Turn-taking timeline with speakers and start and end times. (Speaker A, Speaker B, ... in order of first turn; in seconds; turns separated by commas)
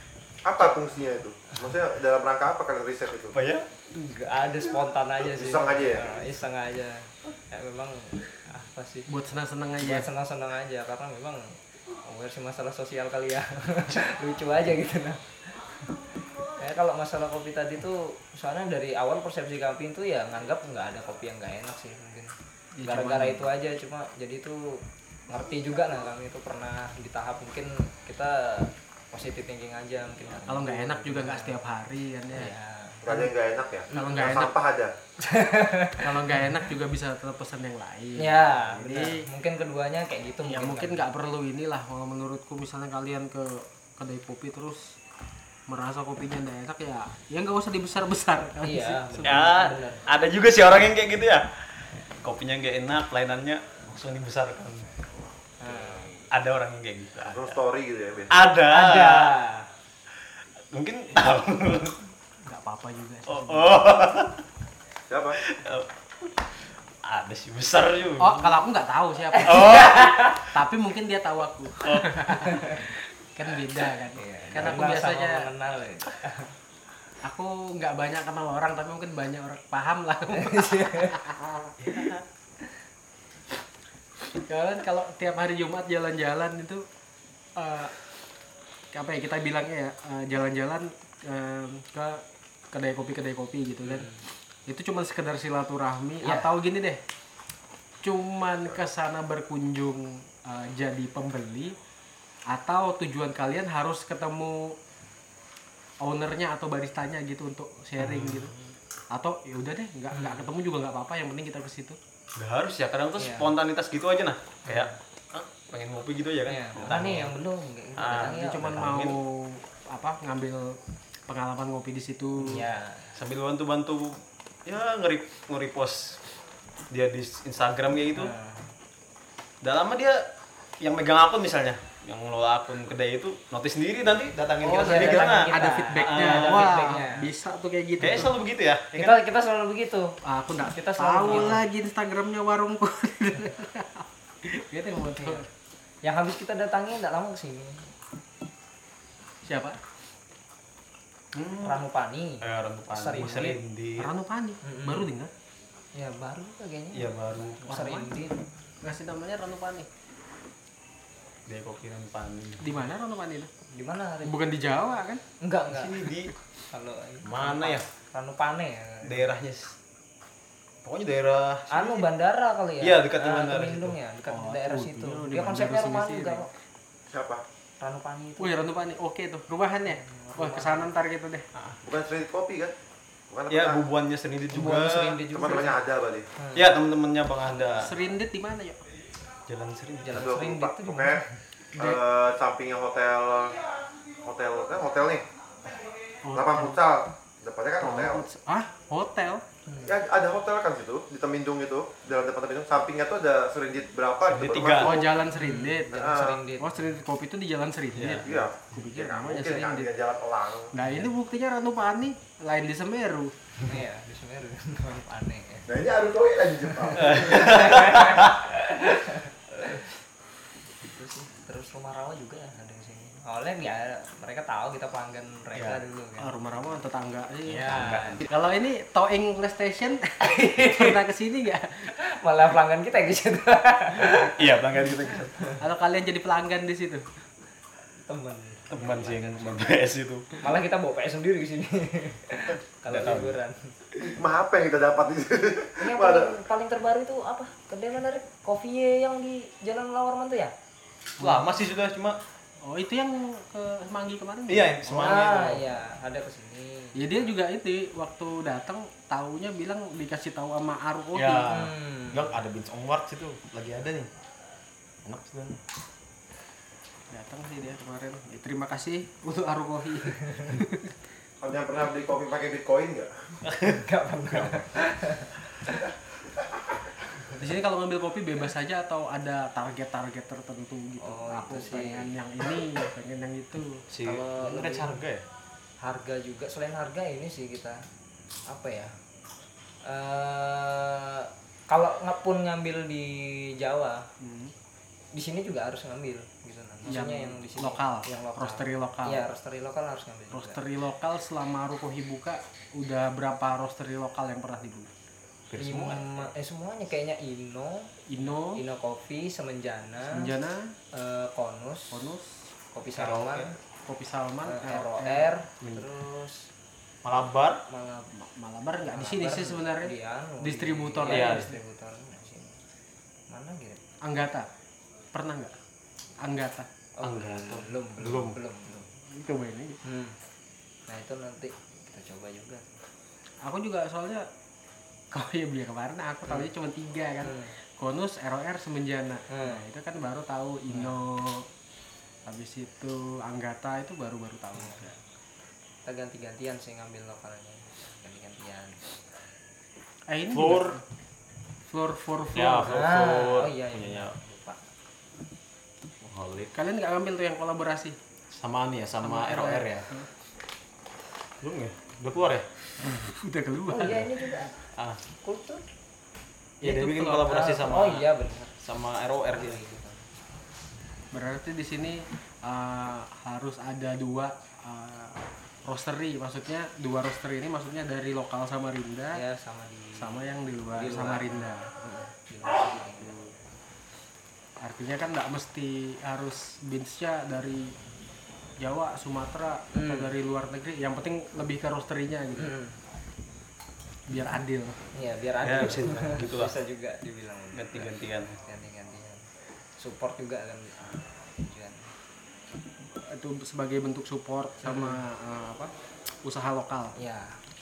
Speaker A: 0.5-3.3, Speaker B: 3.3-3.7, Speaker C: 3.9-9.1, Speaker A: 5.2-6.2, Speaker D: 9.1-10.1, Speaker C: 9.8-15.2, Speaker C: 16.6-31.6, Speaker D: 22.8-23.5, Speaker D: 30.5-32.5, Speaker C: 32.3-33.1, Speaker A: 33.0-34.9, Speaker C: 33.9-34.3, Speaker D: 33.9-34.5, Speaker C: 35.2-36.6, Speaker D: 36.0-39.2, Speaker C: 38.2-41.1, Speaker D: 40.4-45.0, Speaker D: 45.7-49.5, Speaker C: 48.6-50.0, Speaker B: 49.2-54.9, Speaker C: 55.6-56.2, Speaker B: 56.3-57.6, Speaker A: 57.2-58.3, Speaker B: 58.3-59.3, Speaker C: 58.7-59.7, Speaker B: 60.7-62.0, Speaker D: 62.5-63.8, Speaker B: 63.3-64.4, Speaker A: 65.1-65.4, Speaker B: 65.4-66.3, Speaker B: 67.0-68.6, Speaker D: 68.2-75.5, Speaker C: 69.3-70.4, Speaker B: 69.4-70.5, Speaker B: 71.8-72.3, Speaker C: 72.3-72.8, Speaker C: 74.1-76.5, Speaker D: 77.2-81.9, Speaker C: 80.3-81.2, Speaker B: 81.8-82.2, Speaker D: 84.3-86.9, Speaker D: 87.5-88.0, Speaker D: 88.9-97.0, Speaker C: 93.9-94.2, Speaker C: 96.2-96.5, Speaker D: 98.0-101.8, Speaker D: 102.5-104.8, Speaker D: 106.0-108.5, Speaker B: 108.0-108.6, Speaker D: 109.1-112.0, Speaker C: 110.1-110.5, Speaker B: 112.4-117.3, Speaker C: 113.2-113.5, Speaker C: 114.7-115.0, Speaker C: 116.5-118.7, Speaker B: 118.0-119.2, Speaker D: 118.2-122.7, Speaker C: 122.5-123.2, Speaker B: 123.1-126.2, Speaker B: 126.9-128.3, Speaker C: 128.1-128.7, Speaker B: 129.6-130.3, Speaker B: 130.8-136.8, Speaker D: 134.6-138.4, Speaker C: 134.7-137.3, Speaker B: 138.0-139.2, Speaker C: 138.9-141.6, Speaker D: 140.2-145.5, Speaker B: 141.3-141.6, Speaker C: 145.2-145.4, Speaker C: 146.0-147.9, Speaker D: 149.4-149.8, Speaker B: 151.3-151.8, Speaker C: 151.6-153.6, Speaker B: 152.4-154.1, Speaker D: 154.0-155.3, Speaker C: 154.6-155.1, Speaker C: 155.9-158.4, Speaker B: 156.9-157.7, Speaker D: 157.7-158.1, Speaker D: 158.8-159.9, Speaker B: 161.5-162.8, Speaker D: 162.6-163.5, Speaker C: 163.7-164.4, Speaker D: 164.2-165.2, Speaker C: 165.4-166.1, Speaker B: 165.7-166.3, Speaker C: 166.7-169.2, Speaker B: 167.2-167.9, Speaker B: 169.0-169.8, Speaker B: 170.8-172.1, Speaker C: 171.7-176.5, Speaker B: 172.8-173.9, Speaker D: 174.3-176.5, Speaker A: 177.1-177.4, Speaker C: 177.8-178.7, Speaker D: 178.4-181.4, Speaker C: 179.9-180.9, Speaker A: 181.8-182.7, Speaker A: 183.3-183.8, Speaker B: 183.5-185.2, Speaker C: 184.5-185.8, Speaker A: 185.3-186.3, Speaker C: 186.4-186.7, Speaker B: 186.6-187.9, Speaker C: 187.5-187.8, Speaker D: 187.7-188.8, Speaker B: 189.5-190.3, Speaker C: 190.0-191.3, Speaker A: 190.1-191.2, Speaker D: 191.7-192.0, Speaker A: 191.8-193.6, Speaker A: 194.2-195.3, Speaker D: 196.2-196.8, Speaker A: 196.3-198.2, Speaker D: 197.8-199.4, Speaker C: 199.7-199.9, Speaker A: 199.8-205.1, Speaker B: 204.2-205.1, Speaker D: 204.8-209.9, Speaker C: 205.2-206.9, Speaker A: 205.9-206.4, Speaker B: 207.9-208.3, Speaker A: 208.2-210.7, Speaker D: 210.7-213.3, Speaker C: 213.6-215.7, Speaker A: 215.7-217.7, Speaker C: 216.8-219.9, Speaker B: 216.9-218.4, Speaker C: 220.8-226.3, Speaker B: 225.6-225.8, Speaker D: 226.2-231.9, Speaker C: 227.5-228.3, Speaker B: 227.5-228.3, Speaker C: 230.3-231.0, Speaker C: 232.0-234.5, Speaker B: 234.1-235.5, Speaker D: 235.6-237.1, Speaker C: 238.1-239.7, Speaker B: 238.7-240.3, Speaker C: 240.4-243.7, Speaker B: 242.9-243.4, Speaker A: 244.0-246.4, Speaker C: 245.8-250.5, Speaker B: 251.2-252.2, Speaker D: 252.6-255.1, Speaker B: 254.5-255.7, Speaker C: 254.9-257.1, Speaker D: 256.9-261.6, Speaker B: 261.1-264.1, Speaker C: 261.5-262.3, Speaker B: 265.1-265.6, Speaker D: 267.1-270.9, Speaker A: 271.4-273.1, Speaker B: 273.4-274.7, Speaker C: 273.6-275.9, Speaker D: 277.4-284.3, Speaker C: 281.0-282.1, Speaker B: 283.9-285.2, Speaker C: 284.4-284.9, Speaker C: 285.8-287.8, Speaker C: 288.4-288.9, Speaker C: 289.8-294.1, Speaker D: 294.2-294.5, Speaker C: 295.1-300.6, Speaker D: 296.9-299.3, Speaker D: 300.3-304.9, Speaker B: 305.5-306.3, Speaker C: 305.6-310.3, Speaker D: 308.1-308.6, Speaker D: 310.1-310.7, Speaker C: 310.9-312.0, Speaker D: 311.9-312.5, Speaker C: 312.7-313.6, Speaker B: 312.9-313.6, Speaker D: 313.9-315.9, Speaker C: 314.4-316.5, Speaker B: 317.0-317.6, Speaker C: 317.7-318.1, Speaker D: 318.1-321.6, Speaker C: 318.9-322.6, Speaker B: 321.1-321.5, Speaker C: 323.3-323.8, Speaker D: 324.0-324.5, Speaker D: 325.1-325.6, Speaker D: 326.2-326.7, Speaker C: 327.0-328.9, Speaker B: 327.0-328.4, Speaker D: 329.0-329.8, Speaker C: 329.8-330.2, Speaker C: 330.9-332.8, Speaker D: 333.4-334.3, Speaker D: 335.1-341.5, Speaker C: 337.2-337.6, Speaker C: 339.3-339.6, Speaker D: 342.2-345.0, Speaker C: 345.8-348.9, Speaker D: 350.1-350.8, Speaker B: 350.3-350.8, Speaker D: 351.7-352.9, Speaker B: 352.3-354.1, Speaker C: 352.7-354.6, Speaker B: 356.0-356.5, Speaker D: 356.5-358.0, Speaker B: 358.3-359.9, Speaker D: 359.0-360.1, Speaker B: 361.4-362.4, Speaker D: 362.8-364.1, Speaker C: 363.7-364.6, Speaker C: 365.2-365.6, Speaker D: 366.6-367.4, Speaker B: 366.6-368.1, Speaker C: 367.2-368.6, Speaker B: 368.6-369.6, Speaker C: 369.3-370.1, Speaker D: 371.1-379.2, Speaker C: 379.1-381.4, Speaker D: 379.9-382.0, Speaker C: 382.1-383.3, Speaker D: 384.6-387.8, Speaker D: 388.6-392.5, Speaker C: 389.7-390.1, Speaker C: 392.4-392.8, Speaker D: 394.1-394.8, Speaker C: 394.9-399.2, Speaker B: 395.4-396.6, Speaker B: 397.5-398.4, Speaker C: 399.8-401.9, Speaker D: 402.9-405.7, Speaker C: 404.6-405.0, Speaker D: 406.2-406.9, Speaker C: 406.9-407.4